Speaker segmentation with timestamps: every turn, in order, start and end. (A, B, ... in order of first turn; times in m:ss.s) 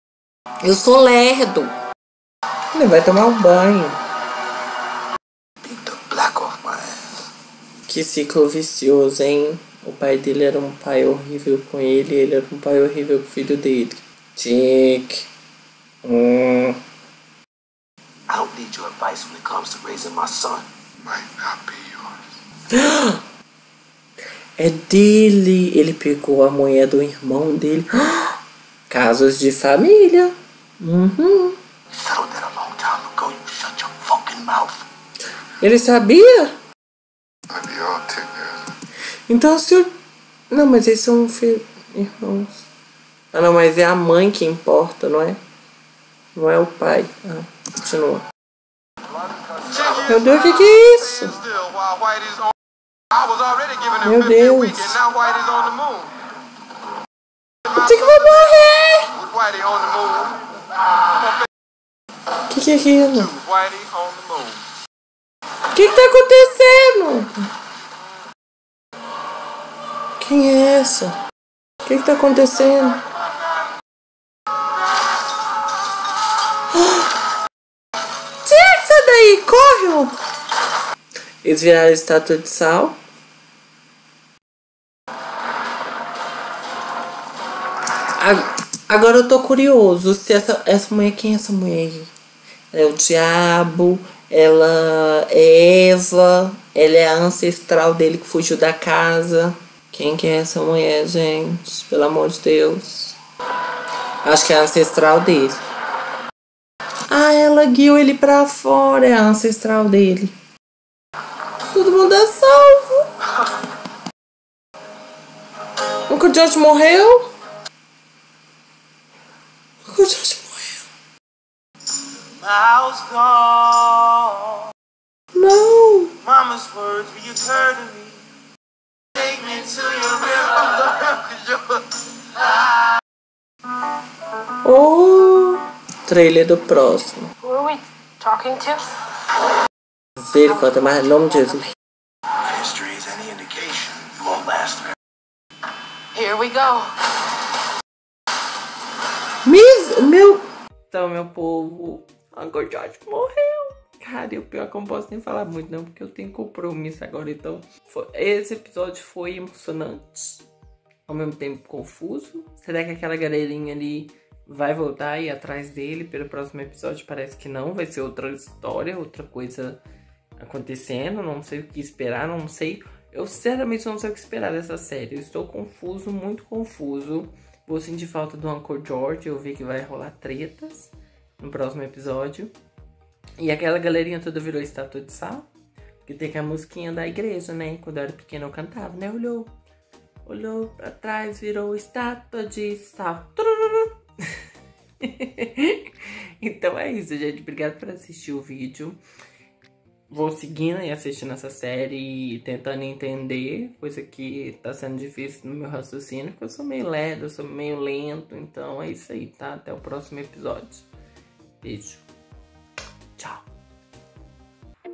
0:00.6-0:01.7 A
0:02.7-0:03.9 A
0:05.6-0:07.0 B
0:07.9-0:15.3 A
0:16.0-0:16.8 A
0:18.3-0:20.6 B
0:21.0-0:22.2 C
0:22.7-0:23.2 A
0:24.6-0:28.4 A
0:28.9-0:31.6 A
0:31.9-0:34.7 B
0:35.6-0:36.5 A
0:37.5-0:38.7 C
0:39.3-0:39.9 A
0:40.5-0:42.6 A
0:43.3-0:45.4 A
0:46.3-0:48.2 A
0:49.4-0:50.2 C
0:49.9-0:51.4 A
0:51.4-0:52.5 C
0:53.1-0:56.1 C
0:54.0-0:55.0 A
0:57.7-0:59.1 A
0:59.2-1:00.4 C
1:02.5-1:03.3 A
1:03.2-1:04.6 C
1:05.7-1:07.3 A
1:10.2-1:11.1 A
1:11.8-1:13.0 A
1:16.7-1:17.0 A
1:18.4-1:20.1 A
1:21.4-1:23.0 A
1:28.1-1:32.1 A
1:32.7-1:43.2 A
1:44.2-1:45.6 A
1:47.1-1:50.3 A
1:51.7-1:53.1 A
1:56.1-1:57.3 A
1:59.8-2:00.8 A
2:02.4-2:03.9 D
2:05.3-2:06.1 A
2:06.2-2:08.2 D
2:09.2-2:10.7 D
2:14.6-2:17.3 A
2:17.4-2:18.8 E
2:20.2-2:21.6 A
2:22.5-2:24.9 B
2:26.2-2:26.9 E
2:29.4-2:40.4 A
2:41.1-2:49.8 A
2:50.4-3:02.5 A
3:03.4-3:05.5 A
3:06.0-3:09.5 A
3:10.2-3:14.0 A
3:15.0-3:19.0 A
3:20.1-3:30.9 A
3:31.6-3:32.0 A
3:33.2-3:33.4 A